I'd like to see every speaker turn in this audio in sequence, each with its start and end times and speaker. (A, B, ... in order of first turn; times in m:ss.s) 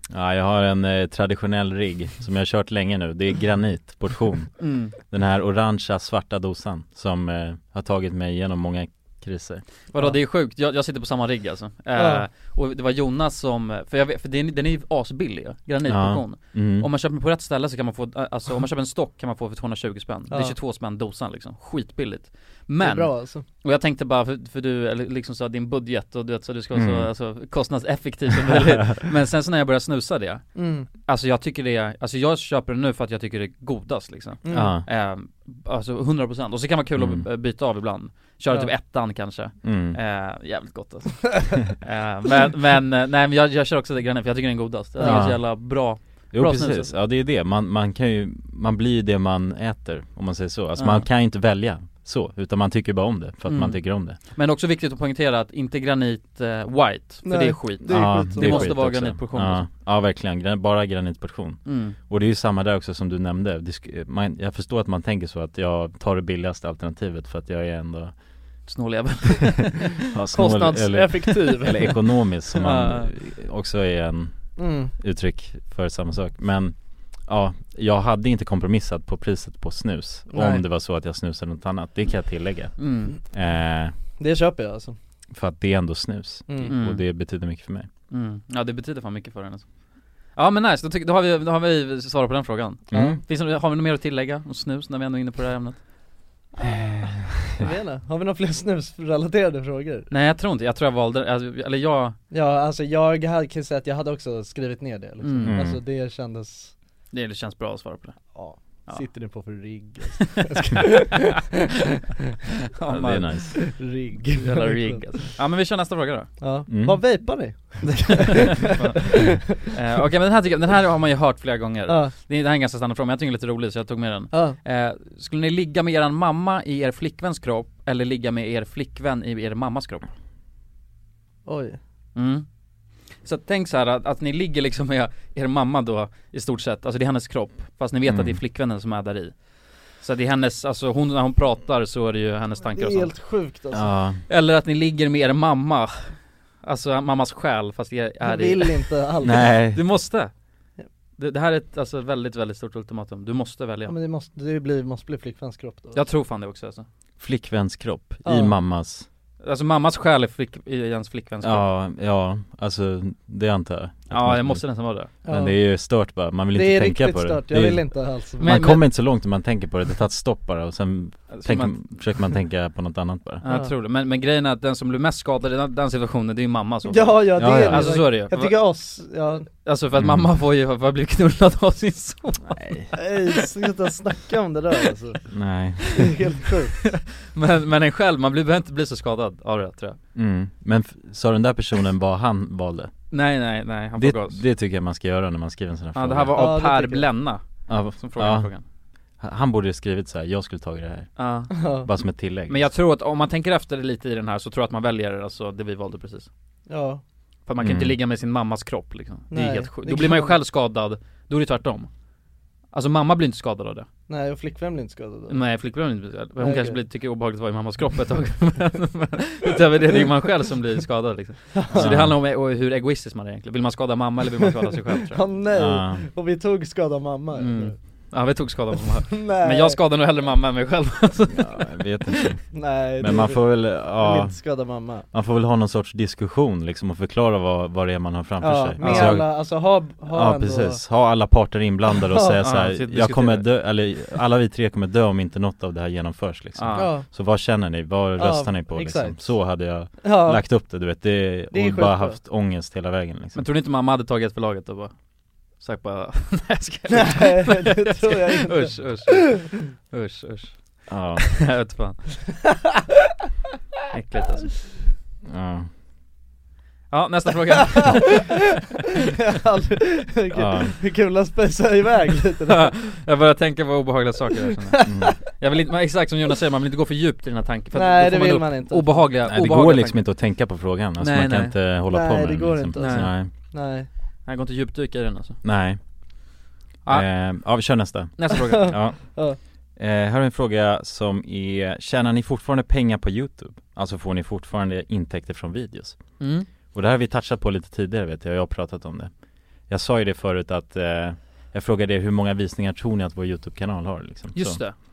0:00.1-0:09.6 A
0:04.6-0:04.9 B
0:09.9-0:46.9 B
0:11.9-0:12.2 C
0:15.8-0:16.9 A
0:20.3-0:20.6 C
0:22.8-0:23.4 C
0:26.7-0:27.1 A
0:30.5-0:30.9 C
0:34.4-0:34.8 C
0:34.5-0:34.9 A
0:37.0-0:37.2 A
0:39.6-0:40.0 A
0:45.0-0:45.3 C
0:45.0-0:54.2 A
0:50.8-0:51.1 B
0:53.5-0:59.6 B
0:57.2-0:58.8 C
0:57.8-1:08.1 A
1:01.6-1:02.0 B
1:08.7-1:10.0 B
1:10.0-1:23.9 A
1:10.3-1:11.9 C
1:12.6-1:13.1 B
1:14.6-1:14.9 C
1:20.3-1:20.6 C
1:22.8-1:23.2 B
1:24.2-1:25.0 C
1:25.3-1:27.9 A
1:26.5-1:26.8 C
1:26.6-1:27.0 B
1:28.1-1:29.7 B
1:30.3-1:35.8 B
1:32.9-1:33.2 A
1:36.6-1:40.1 C
1:40.1-1:42.2 B
1:42.3-1:46.8 C
1:45.2-1:45.7 B
1:45.4-1:45.8 A
1:47.1-1:48.3 B
1:48.3-1:51.5 C
1:52.8-1:53.6 B
1:52.9-1:53.6 A
1:53.7-1:55.1 C
1:54.4-1:56.3 B
1:56.4-1:59.4 C
1:56.7-1:57.0 A
1:58.6-2:10.1 B
2:01.9-2:02.1 C
2:04.3-2:04.6 C
2:11.4-2:11.8 C
2:12.1-2:12.4 B
2:13.2-2:19.4 B
2:18.0-2:18.4 A
2:20.0-2:23.1 B
2:22.7-2:23.9 C
2:23.7-2:24.2 A
2:24.3-2:30.3 B
2:28.2-2:29.6 C
2:29.2-2:29.8 A
2:31.2-2:33.9 B
2:33.9-2:36.0 C
2:35.9-2:36.8 B
2:37.2-2:39.1 A
2:38.2-2:38.5 C
2:39.4-2:41.7 B
2:41.4-2:53.4 A
2:44.1-2:45.1 B
2:45.2-2:45.6 C
2:46.5-2:48.6 C
2:48.4-2:48.8 B
2:51.3-2:51.9 B
2:53.4-2:58.6 B
2:56.9-2:59.5 C
2:57.4-2:58.1 A
2:59.6-3:02.7 B
3:00.0-3:00.3 A
3:02.5-3:02.9 A
3:02.9-3:05.3 C
3:05.3-3:06.0 A
3:05.9-3:06.9 C
3:07.2-3:10.0 B
3:10.1-3:12.9 A
3:13.1-3:14.4 B
3:14.0-3:16.3 A
3:15.9-3:18.6 B
3:16.3-3:17.1 C
3:17.7-3:18.5 A
3:19.2-3:22.7 A
3:21.2-3:21.5 B
3:21.6-3:21.9 C
3:22.5-3:26.3 B
3:26.7-3:27.0 C
3:27.5-3:31.9 B
3:27.6-3:28.0 A
3:29.3-3:30.4 C
3:32.7-3:33.9 B
3:34.1-3:35.4 C
3:35.3-3:45.2 B
3:36.4-3:36.8 C
3:41.5-3:42.0 C
3:41.8-3:42.1 A
3:45.1-3:47.8 C
3:45.5-3:46.1 A
3:47.4-3:51.7 B
3:49.1-3:49.8 C
3:51.3-4:13.4 A
3:52.5-3:55.1 C
3:58.4-4:00.8 C
3:58.8-3:59.2 B
4:02.4-4:03.5 B
4:06.6-4:06.9 B
4:06.8-4:07.1 C
4:08.2-4:10.9 C
4:11.5-4:12.2 C
4:13.3-4:15.0 B
4:15.5-4:22.1 B
4:16.9-4:19.5 C
4:20.9-4:21.4 A
4:23.9-4:24.5 B
4:25.2-4:25.7 A
4:26.9-4:28.4 B
4:29.1-4:32.8 C
4:30.3-4:30.8 A
4:32.5-4:40.1 B
4:34.8-4:35.1 C
4:34.8-4:35.2 A
4:37.7-4:39.1 C
4:39.2-4:43.3 A
4:41.0-4:41.6 B
4:41.9-4:43.9 C
4:42.8-4:43.1 B
4:44.2-4:45.4 B
4:45.4-4:45.8 A
4:46.9-4:49.2 A
4:48.2-4:48.8 B
4:48.3-4:49.4 C
4:49.8-4:59.1 A
4:56.2-4:56.5 B
4:59.7-5:04.7 A
5:04.3-5:04.8 B